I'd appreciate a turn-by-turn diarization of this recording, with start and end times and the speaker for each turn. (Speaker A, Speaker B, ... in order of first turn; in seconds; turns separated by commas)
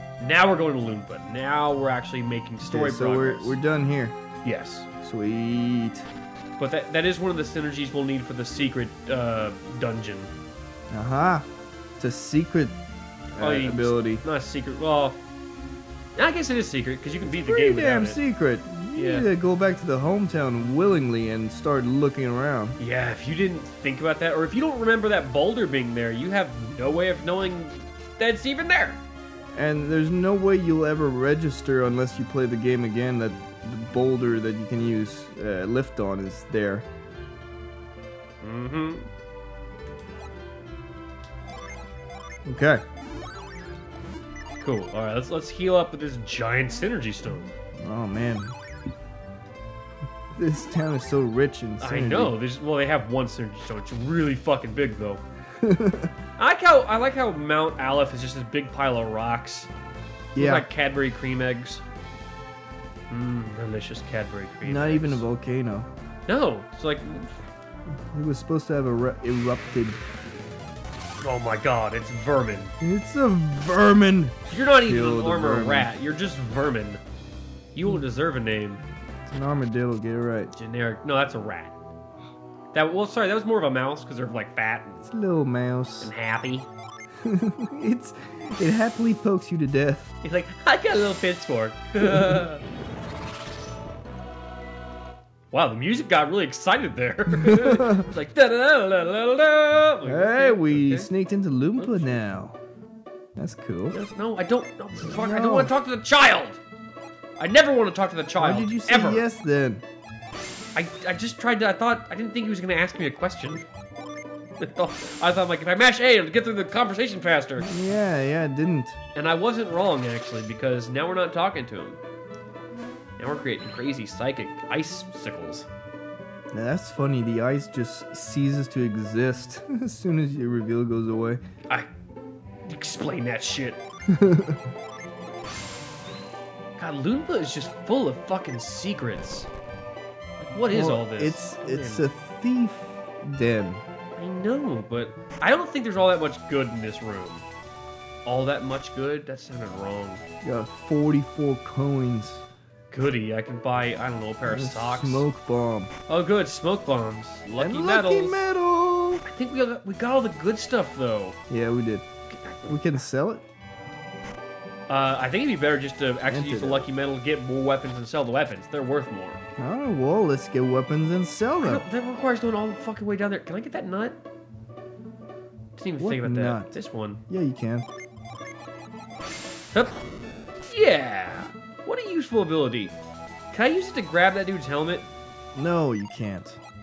Speaker A: 0.2-3.6, Speaker B: 2.6-4.2, Speaker A: 4.4-4.9, Speaker B: 5.0-6.1, Speaker A: 6.6-10.3, Speaker B: 10.9-11.5, Speaker B: 12.0-12.8, Speaker B: 13.4-14.2, Speaker A: 13.4-15.2, Speaker A: 16.2-18.2, Speaker B: 17.3-22.8, Speaker A: 18.9-19.3, Speaker A: 22.8-29.0, Speaker B: 29.6-36.9, Speaker A: 38.4-39.1, Speaker B: 42.5-42.8, Speaker A: 44.6-47.5, Speaker B: 47.8-48.5, Speaker B: 50.3-52.3, Speaker A: 51.8-55.2, Speaker B: 55.6-56.1, Speaker A: 56.4-59.7, Speaker B: 60.4-60.7, Speaker A: 60.4-61.8, Speaker A: 63.1-65.2, Speaker B: 64.6-65.9, Speaker A: 66.3-67.3, Speaker B: 68.1-70.0, Speaker A: 71.2-72.7, Speaker B: 72.8-75.9, Speaker A: 74.5-77.0, Speaker A: 77.7-78.8, Speaker B: 79.3-80.5, Speaker A: 80.5-81.8, Speaker A: 82.7-85.1, Speaker B: 85.1-86.1, Speaker A: 86.0-86.7, Speaker B: 87.2-90.1, Speaker A: 90.2-92.6, Speaker B: 92.1-92.4, Speaker A: 95.5-101.1, Speaker B: 97.4-98.1, Speaker B: 100.0-102.6, Speaker A: 101.8-102.2, Speaker B: 103.4-104.0, Speaker A: 103.9-106.6, Speaker B: 105.0-105.7, Speaker A: 107.4-109.2, Speaker B: 108.4-109.8, Speaker A: 110.8-113.7, Speaker A: 114.6-117.7, Speaker B: 117.6-119.0, Speaker A: 119.2-122.0, Speaker A: 123.2-125.7, Speaker B: 126.5-131.4, Speaker A: 132.7-133.8, Speaker B: 134.1-134.6, Speaker A: 136.8-139.5, Speaker A: 140.4-142.1, Speaker B: 140.7-143.8, Speaker A: 144.2-147.4, Speaker A: 148.2-150.2, Speaker B: 150.4-152.4, Speaker A: 152.9-155.2, Speaker B: 154.5-155.9, Speaker A: 156.1-158.4, Speaker B: 157.6-159.2, Speaker A: 159.2-161.4, Speaker B: 161.5-162.1, Speaker A: 162.3-163.0, Speaker B: 162.7-163.4, Speaker A: 164.9-169.4, Speaker B: 166.3-166.9, Speaker B: 169.6-171.8, Speaker A: 171.6-174.2, Speaker A: 175.8-177.2, Speaker B: 176.0-176.7, Speaker B: 177.3-177.9, Speaker A: 180.7-182.9, Speaker A: 183.5-185.1, Speaker B: 185.6-186.6